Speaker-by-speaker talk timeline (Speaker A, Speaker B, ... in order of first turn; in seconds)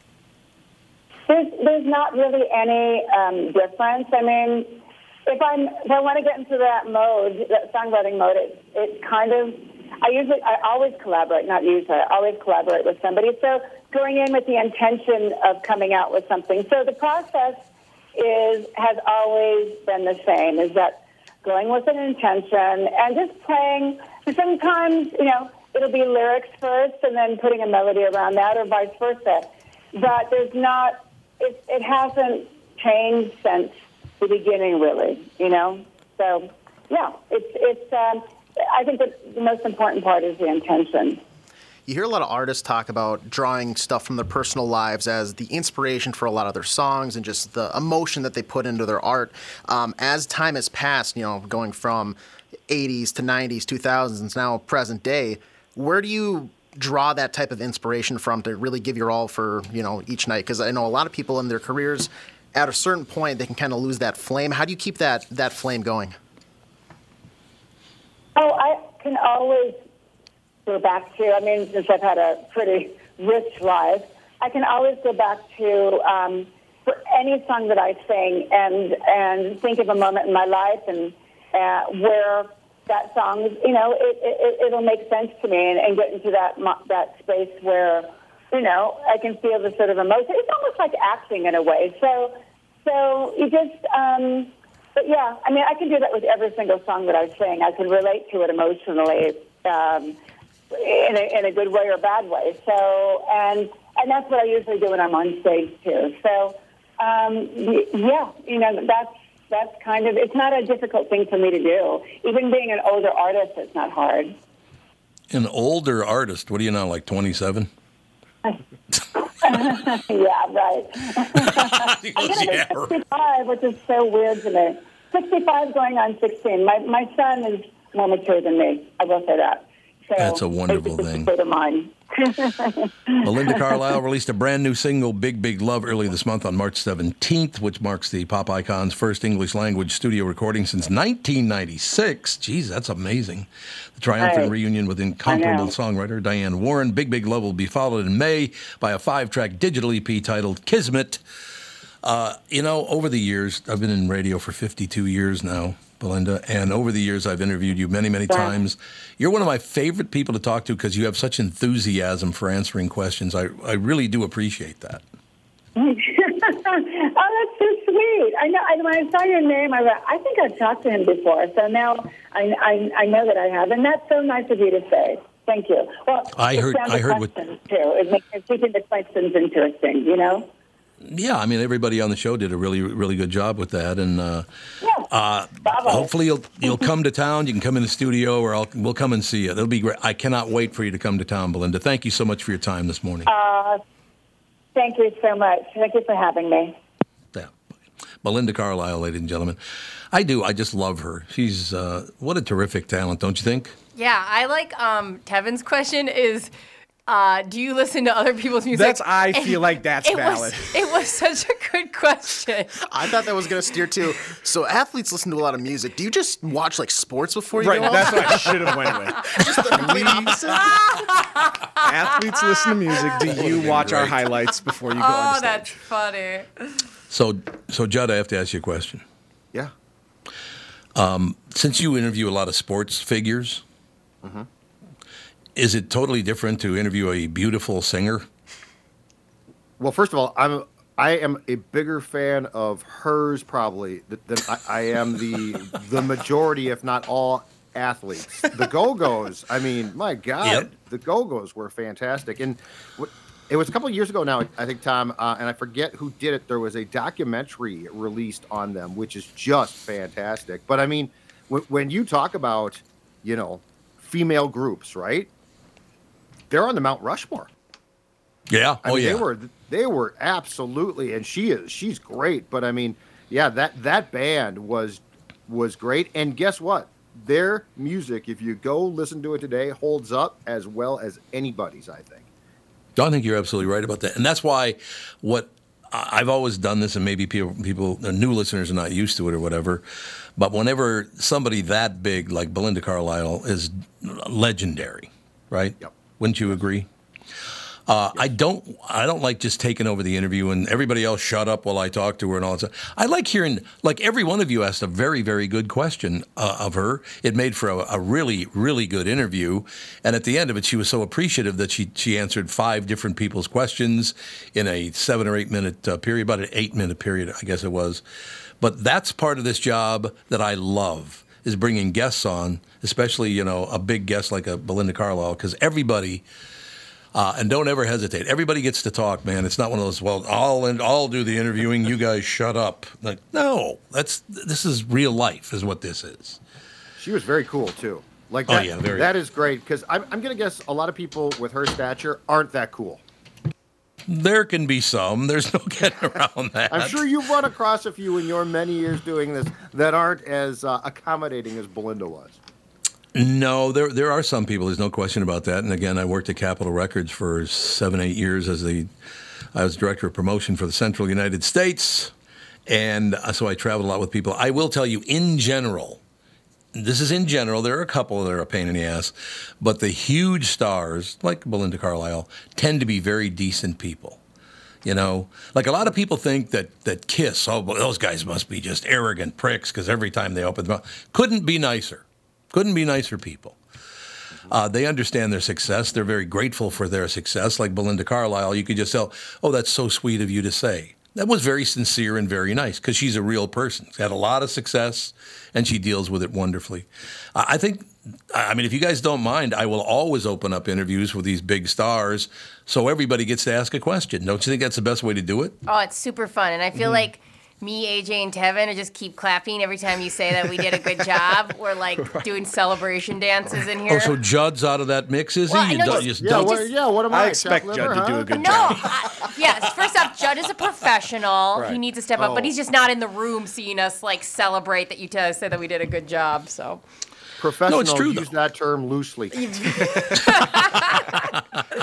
Speaker A: 1.3-17.6, 18.1-41.2, 68.3-69.8, 70.7-100.2, 100.7-114.3, 119.4-133.8, 144.2-144.5, 145.2-145.7, 158.3-158.6, 165.8-180.5, 184.8-185.1, 185.6-186.9, 193.2-193.8, 194.7-196.8
Speaker B: 41.9-52.2, 52.7-66.1, 212.8-220.9
Speaker C: 115.3-117.7, 119.5-119.9, 121.3-123.0, 130.2-131.3, 133.2-151.2, 152.0-165.0, 176.3-177.3, 181.1-184.4, 185.1-193.3, 198.2-199.6, 200.1-203.7, 223.3-224.2, 227.1-229.0, 230.9-233.6, 235.6-238.3, 250.4-250.7, 268.5-269.2, 283.0-289.8, 290.4-296.9, 297.9-318.0, 318.6-326.2, 327.1-336.4, 338.5-339.1, 344.1-347.0, 353.1-358.9, 359.5-362.1, 362.7-366.0, 366.7-374.2, 374.8-383.6, 384.5-405.6, 413.9-416.6, 427.7-428.3
Speaker D: 203.9-206.5, 207.1-212.8, 217.9-218.2, 221.2-223.1, 224.9-226.5, 405.6-414.1, 415.5-416.7, 418.3-426.8, 429.3-431.3
Speaker E: 208.7-210.8, 217.6-220.8, 221.8-225.7, 417.1-419.3
Speaker F: 239.8-265.3, 266.5-267.5, 268.8-282.2, 337.0-343.0, 346.7-352.4, 415.9-418.8, 422.2-422.5, 427.4-429.9